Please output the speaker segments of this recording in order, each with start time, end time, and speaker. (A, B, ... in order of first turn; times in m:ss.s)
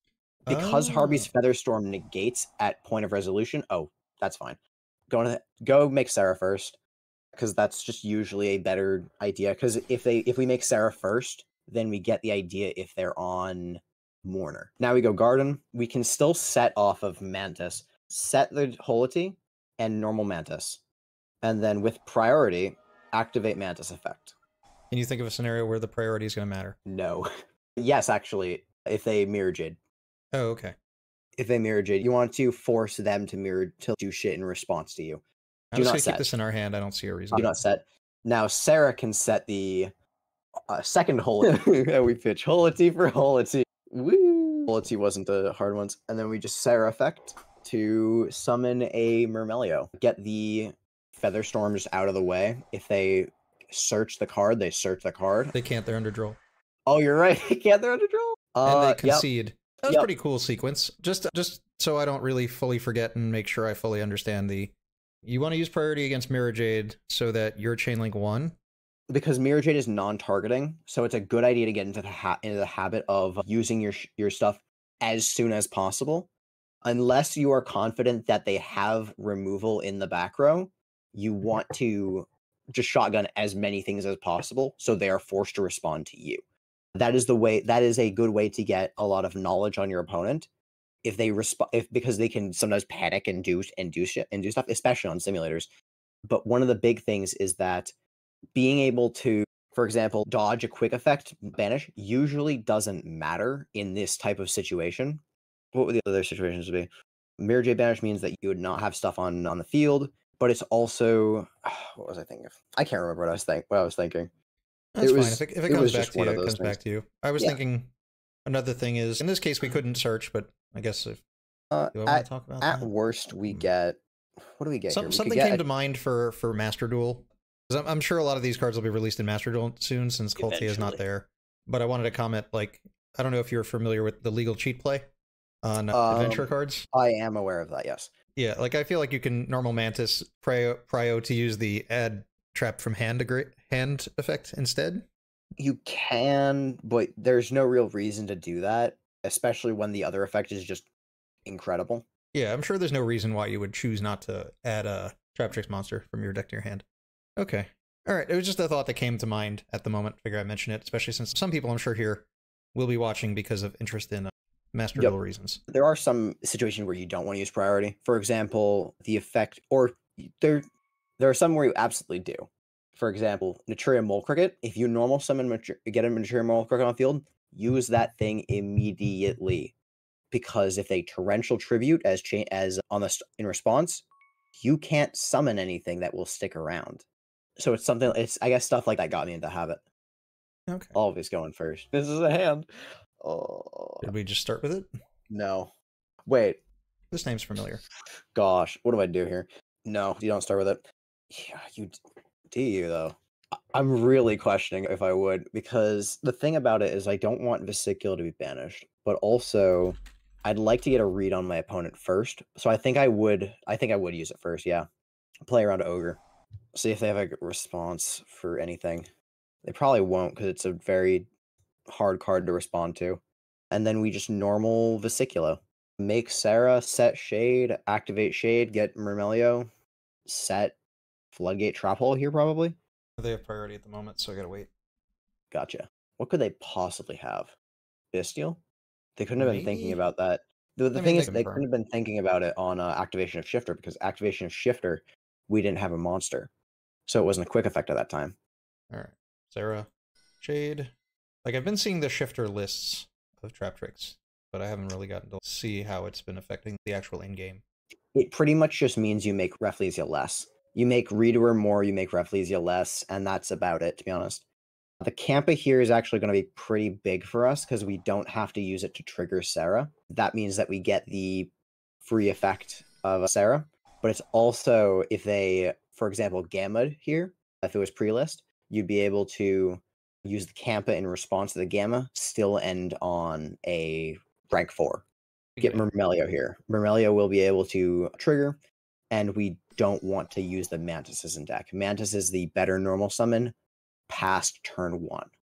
0:00.4-0:06.8 A
0:00.5-0:01.3 B
0:07.4-0:20.8 A
0:21.4-0:24.4 A
0:24.9-0:26.8 B
0:26.9-0:29.8 A
0:30.3-0:30.8 B
0:31.4-0:35.2 A
0:35.7-0:37.6 B
0:35.8-0:36.3 A
0:37.3-0:39.9 A
0:40.7-0:55.5 A
0:55.5-0:56.4 B
0:56.9-0:59.3 A
0:58.6-1:08.6 B
1:09.1-1:16.3 A
1:16.8-1:26.4 A
1:27.0-1:30.5 A
1:31.0-1:35.7 A
1:36.3-1:37.9 A
1:38.5-1:45.2 A
1:45.7-1:54.3 A
1:55.0-1:57.9 B
1:55.0-1:56.8 A
1:58.5-2:01.2 B
2:01.7-2:05.6 A
2:01.9-2:02.9 B
2:04.9-2:15.1 B
2:10.4-2:11.0 A
2:15.6-2:16.9 B
2:15.9-2:18.1 A
2:18.4-2:25.1 B
2:25.6-2:30.9 A
2:31.4-2:32.1 A
2:32.3-2:36.8 B
2:37.4-2:45.6 B
2:45.7-2:50.6 A
2:51.2-2:59.7 A
3:00.3-3:04.0 A
3:04.6-3:07.0 A
3:07.6-3:09.8 A
3:10.7-3:11.0 B
3:10.9-3:14.1 A
3:14.0-3:14.9 B
3:15.3-3:15.7 A
3:16.3-3:16.6 A
3:17.1-3:17.8 B
3:18.3-3:22.0 A
3:22.5-3:23.2 A
3:23.7-3:34.9 A
3:35.4-3:36.2 A
3:36.7-3:39.1 A
3:39.6-3:41.3 A
3:41.9-3:49.7 A
3:50.3-3:50.8 A
3:51.3-3:52.8 A
3:53.2-3:54.7 B
3:55.5-3:57.6 A
3:58.1-3:58.6 A
3:59.2-4:06.5 A
3:59.4-4:00.0 B
4:01.0-4:01.7 B
4:07.1-4:08.4 A
4:08.9-4:09.9 B
4:10.4-4:10.9 B
4:11.4-4:17.6 B
4:18.1-4:24.4 A
4:25.0-4:31.5 A
4:32.0-4:45.0 A
4:45.6-4:45.8 B
4:45.6-4:48.6 A
4:49.1-4:53.6 A
4:54.1-4:55.3 A